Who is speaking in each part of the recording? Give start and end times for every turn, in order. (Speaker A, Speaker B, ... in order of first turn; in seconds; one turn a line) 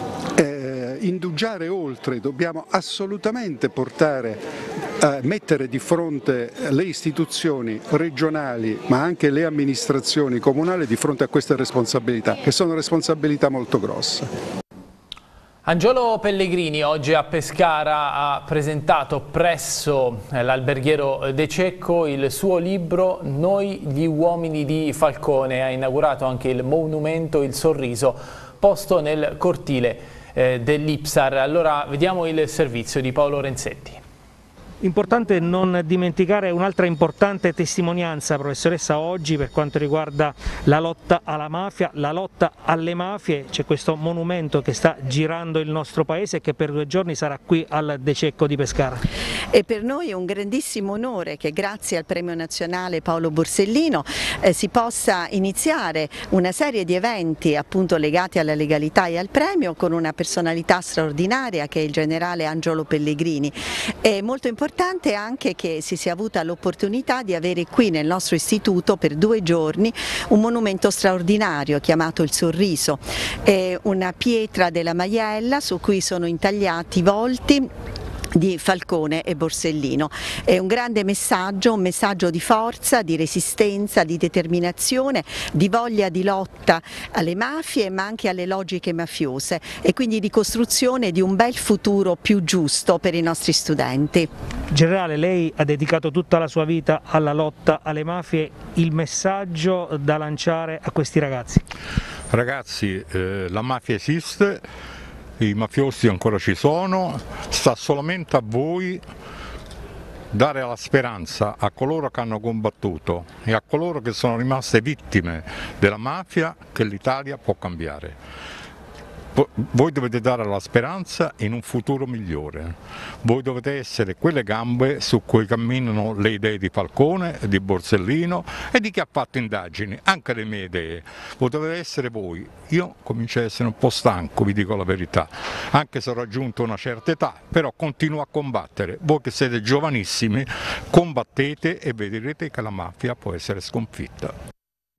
Speaker A: 0.3-4.5
Speaker A: 5.0-14.3
Speaker B: 15.6-34.0
Speaker C: 34.8-49.0
Speaker D: 49.5-77.7
Speaker D: 78.3-94.3
Speaker C: 94.7-101.6
Speaker E: 102.3-104.7
Speaker E: 105.4-109.0
Speaker E: 110.3-118.2
Speaker E: 119.3-144.3